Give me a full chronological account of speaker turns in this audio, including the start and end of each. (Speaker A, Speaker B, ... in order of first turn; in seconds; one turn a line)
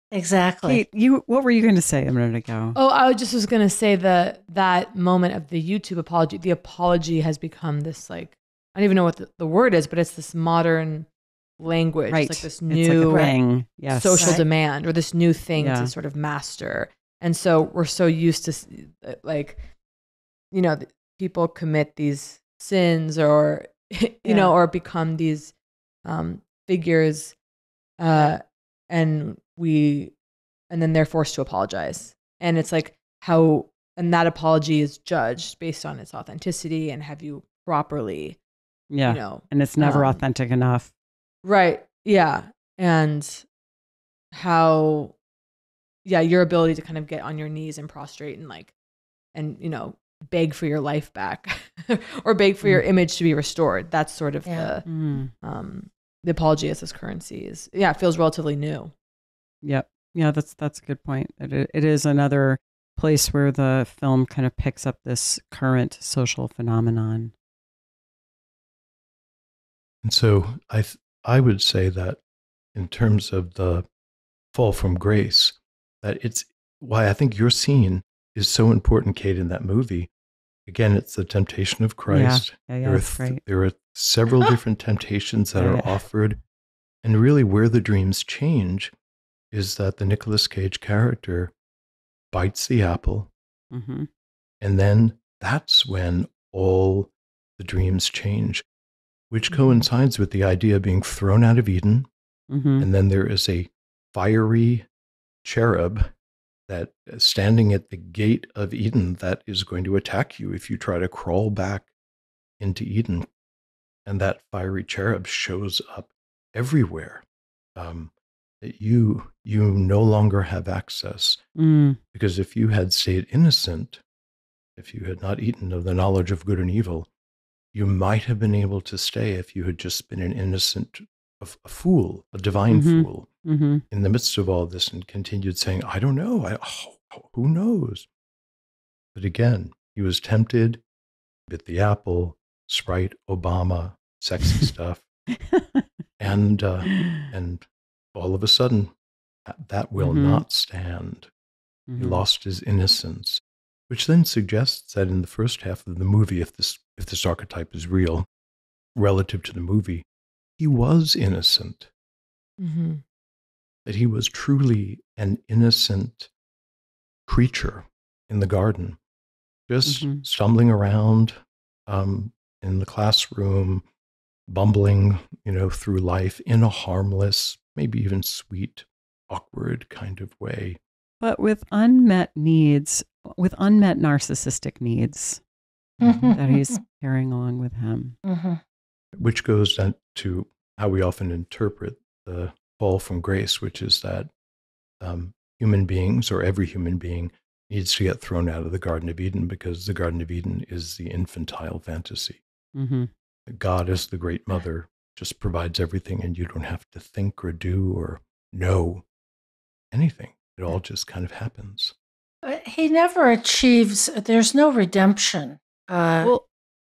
Speaker A: 0.1-0.8
Speaker B: 0.6-2.8
Speaker C: 2.7-11.1
Speaker C: 11.6-13.3
Speaker B: 12.1-14.4
Speaker A: 13.1-13.3
Speaker C: 13.9-19.7
Speaker A: 14.2-14.4
Speaker B: 15.6-15.9
Speaker C: 20.5-25.5
Speaker A: 24.2-24.5
Speaker C: 26.0-27.4
Speaker C: 28.0-30.1
Speaker C: 30.7-38.4
Speaker B: 38.9-40.9
Speaker C: 39.0-40.2
Speaker C: 41.4-43.5
Speaker C: 44.3-45.1
Speaker C: 46.0-48.7
Speaker C: 49.3-54.9
Speaker B: 54.9-55.3
Speaker C: 55.4-58.9
Speaker B: 59.6-67.3
Speaker D: 70.0-72.2
Speaker D: 72.7-73.8
Speaker D: 74.5-80.1
Speaker D: 80.7-86.4
Speaker B: 82.1-83.4
Speaker B: 85.5-86.0
Speaker D: 87.0-88.9
Speaker D: 89.5-91.5
Speaker D: 92.3-93.3
Speaker B: 93.7-94.1
Speaker D: 94.6-98.6
Speaker D: 99.3-102.1
Speaker B: 102.5-102.9
Speaker D: 102.8-104.9
Speaker D: 105.4-106.1
Speaker D: 106.7-111.9
Speaker D: 112.6-113.3
Speaker D: 114.0-117.2
Speaker D: 117.8-121.4
Speaker B: 121.6-122.0
Speaker D: 122.1-124.0
Speaker D: 124.8-127.1
Speaker D: 127.7-133.3
Speaker B: 132.7-133.8
Speaker D: 133.9-138.1
Speaker D: 139.1-140.8
Speaker D: 141.5-145.1
Speaker B: 145.5-145.8
Speaker D: 146.2-148.9
Speaker D: 149.4-151.3
Speaker B: 150.0-150.4
Speaker B: 151.9-152.2
Speaker D: 152.0-158.2
Speaker D: 158.9-160.0
Speaker D: 160.6-161.9
Speaker C: 162.6-163.0
Speaker D: 163.8-166.3
Speaker D: 167.3-169.0
Speaker D: 169.7-173.8
Speaker B: 169.8-170.2
Speaker D: 174.5-180.8
Speaker B: 181.2-185.4
Speaker A: 186.0-186.7
Speaker D: 186.0-186.3
Speaker B: 186.3-188.1
Speaker A: 188.2-188.6
Speaker D: 189.2-194.3
Speaker D: 195.0-202.4
Speaker B: 202.7-203.1
Speaker D: 203.5-209.0
Speaker D: 209.9-211.9
Speaker A: 212.4-216.3